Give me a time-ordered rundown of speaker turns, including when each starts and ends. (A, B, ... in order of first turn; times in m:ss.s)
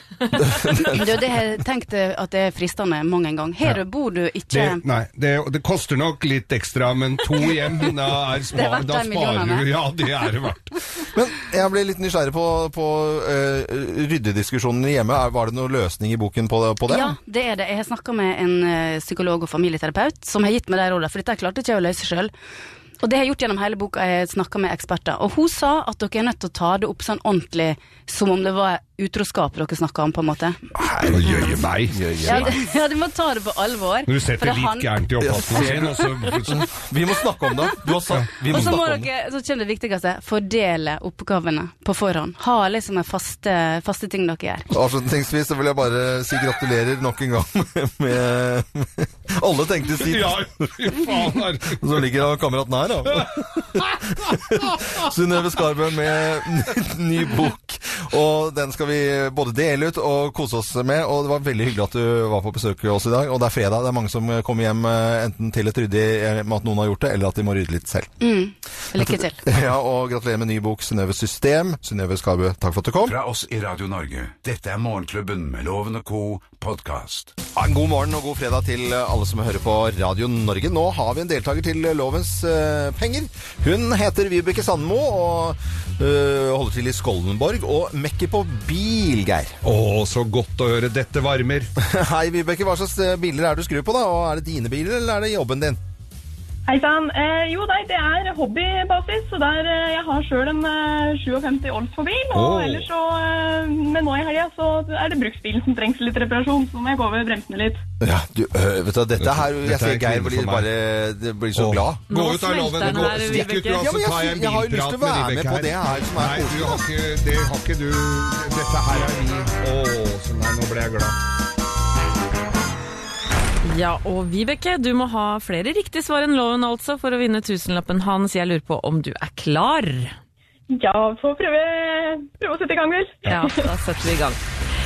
0:00.5-0:00.9 A
0:00.8-0:04.8 B
0:04.5-0:10.7 C
0:08.5-0:09.8 B
0:11.1-0:17.2 A
0:16.9-0:22.3 B
0:23.0-0:30.6 B
0:31.0-0:32.5 A
0:31.0-0:32.5 C
0:32.2-0:34.9 B
0:34.1-0:36.7 C
0:35.2-0:39.1 A
0:35.5-0:35.8 B
0:38.1-0:38.8 C
0:38.5-0:44.7 B
0:44.7-0:50.5 A
0:50.0-0:51.8 C
0:51.7-1:08.1 A
0:53.1-0:53.8 C
0:54.4-0:54.9 C
1:08.2-1:09.4 B
1:09.0-1:13.2 A
1:13.0-1:17.3 D
1:17.6-1:29.6 A
1:29.6-1:31.7 C
1:31.8-1:35.8 A
1:36.7-1:47.8 E
1:42.3-1:42.9 C
1:48.0-1:52.0 A
1:49.2-1:50.7 C
1:51.6-2:01.2 C
1:52.1-1:53.9 F
1:52.8-1:56.8 A
2:03.6-2:10.2 F
2:10.8-2:13.5 E
2:13.3-2:14.4 F